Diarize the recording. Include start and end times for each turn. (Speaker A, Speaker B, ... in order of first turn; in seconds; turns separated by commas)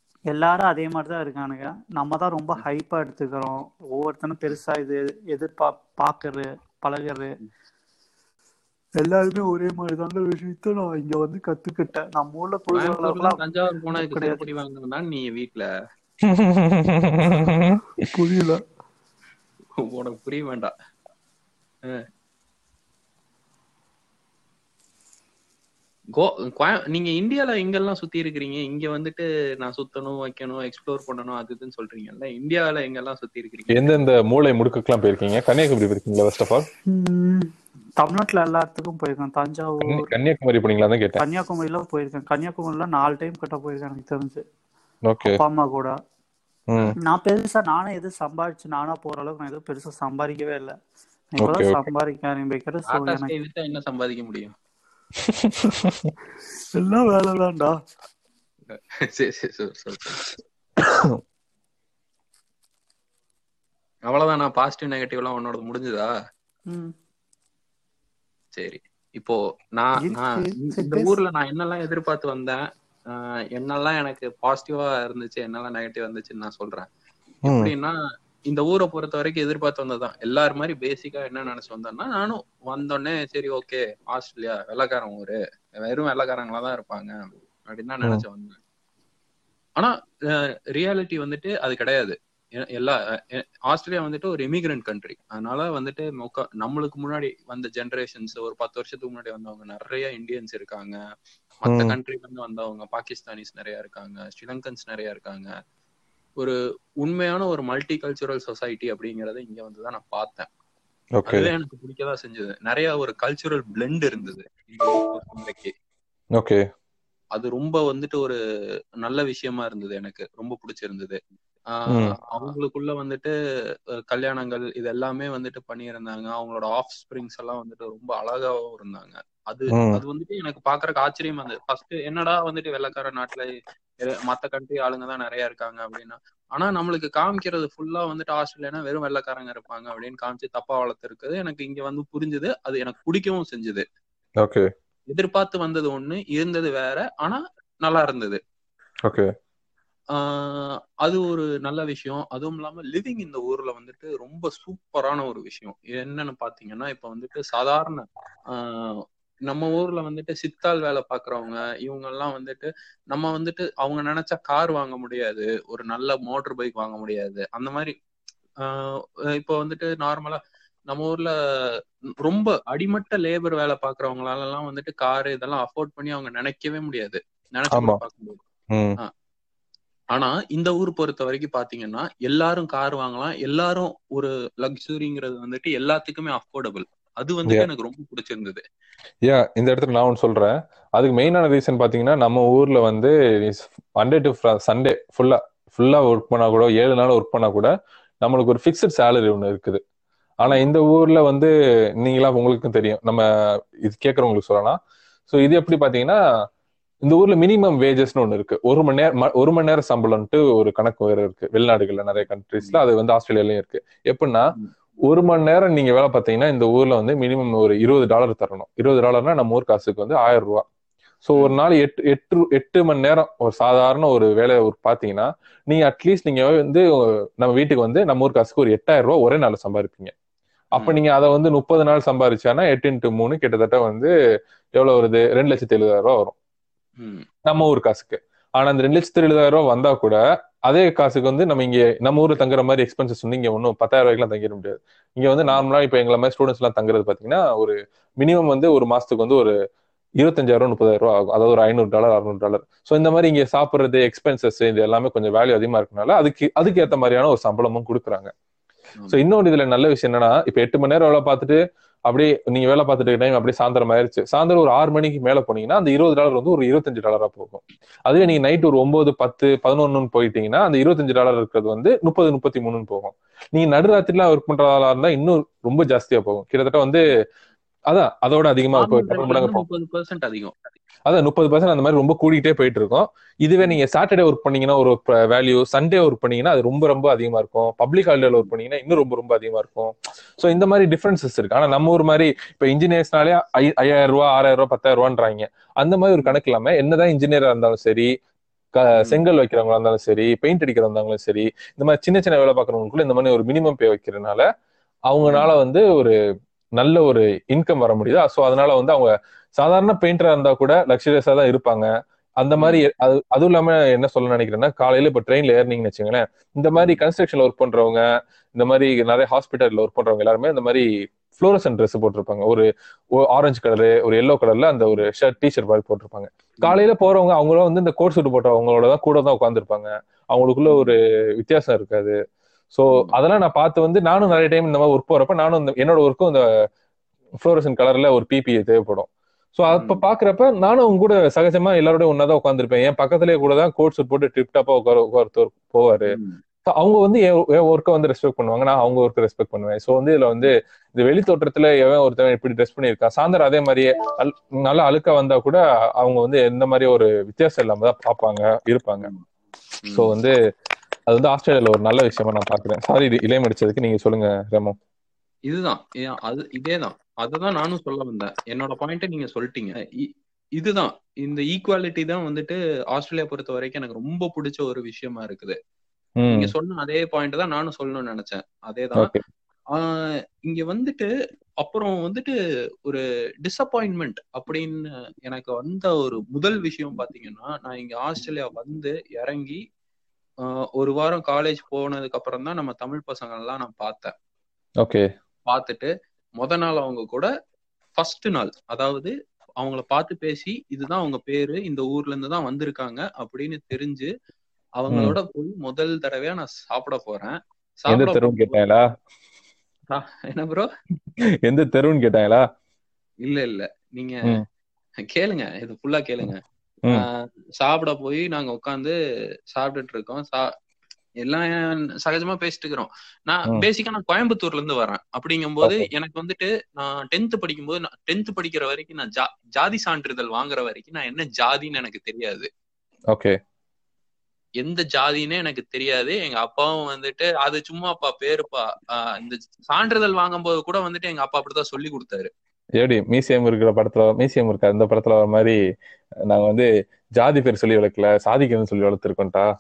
Speaker A: 0.3-7.3, Speaker A: 9.0-13.4, Speaker B: 12.7-15.7, Speaker A: 13.9-14.4, Speaker C: 16.2-17.8, Speaker A: 18.1-18.6, Speaker B: 19.8-20.7, Speaker B: 26.1-34.0, Speaker C: 33.7-36.6, Speaker A: 36.9-40.1, Speaker C: 39.9-41.2, Speaker A: 41.2-44.4, Speaker C: 45.0-45.4, Speaker A: 45.3-45.9, Speaker C: 46.7-47.0, Speaker A: 47.0-50.8, Speaker A: 51.4-53.3, Speaker C: 51.4-51.9, Speaker B: 52.9-54.5, Speaker C: 55.2-56.1, Speaker A: 56.8-57.8, Speaker B: 58.7-60.2, Speaker C: 60.8-61.2, Speaker B: 64.1-66.1, Speaker B: 68.6-72.6, Speaker A: 70.0-71.1, Speaker B: 73.1-76.9, Speaker C: 77.5-77.7, Speaker B: 77.5-77.9, Speaker B: 78.5-88.6, Speaker B: 89.8-101.0, Speaker B: 101.6-105.5, Speaker C: 101.7-102.0, Speaker B: 106.4-110.5, Speaker C: 111.2-111.5, Speaker B: 111.3-115.7, Speaker C: 116.4-116.6, Speaker B: 117.3-118.4, Speaker B: 119.0-121.2, Speaker B: 121.7-123.3, Speaker B: 124.1-133.5, Speaker C: 129.7-130.0, Speaker B: 134.0-143.8, Speaker B: 145.1-148.4, Speaker B: 150.1-167.9, Speaker B: 168.6-178.4, Speaker C: 177.7-178.0, Speaker B: 180.1-188.6, Speaker C: 189.2-197.7, Speaker C: 198.2-199.8, Speaker C: 200.4-203.2, Speaker C: 203.8-204.8, Speaker C: 205.3-206.2, Speaker C: 207.1-214.5, Speaker C: 215.1-220.7, Speaker C: 221.2-230.1, Speaker C: 230.8-234.1, Speaker C: 234.8-236.3, Speaker B: 237.0-237.3, Speaker C: 237.4-249.5, Speaker C: 250.2-258.3, Speaker C: 259.1-277.1, Speaker C: 277.9-279.6, Speaker B: 278.7-280.5, Speaker C: 281.1-298.1, Speaker C: 298.8-304.4, Speaker C: 305.1-306.1, Speaker B: 305.3-305.5, Speaker C: 306.8-311.9, Speaker C: 312.4-318.0, Speaker B: 312.6-312.9, Speaker C: 318.6-322.7, Speaker C: 323.2-332.1, Speaker B: 330.7-330.9, Speaker C: 332.7-336.4, Speaker C: 337.4-346.1, Speaker B: 339.7-340.0, Speaker B: 346.1-346.4, Speaker C: 346.7-359.1, Speaker B: 359.8-360.1, Speaker C: 359.9-360.3, Speaker C: 361.1-364.7, Speaker B: 365.5-375.6, Speaker C: 376.2-376.5, Speaker B: 376.3-379.1, Speaker C: 379.0-379.2, Speaker B: 379.7-381.1, Speaker B: 381.6-382.3, Speaker B: 382.8-389.6, Speaker B: 390.4-394.1, Speaker B: 395.5-397.3, Speaker B: 398.0-404.1, Speaker B: 404.8-408.6, Speaker C: 404.9-405.2, Speaker C: 407.9-408.8, Speaker B: 409.9-410.7, Speaker C: 411.5-412.4, Speaker B: 413.2-414.4, Speaker B: 415.1-418.9, Speaker B: 419.5-420.5, Speaker B: 421.2-432.5, Speaker C: 425.6-425.9, Speaker B: 434.6-442.3, Speaker C: 442.8-445.6, Speaker C: 446.3-449.4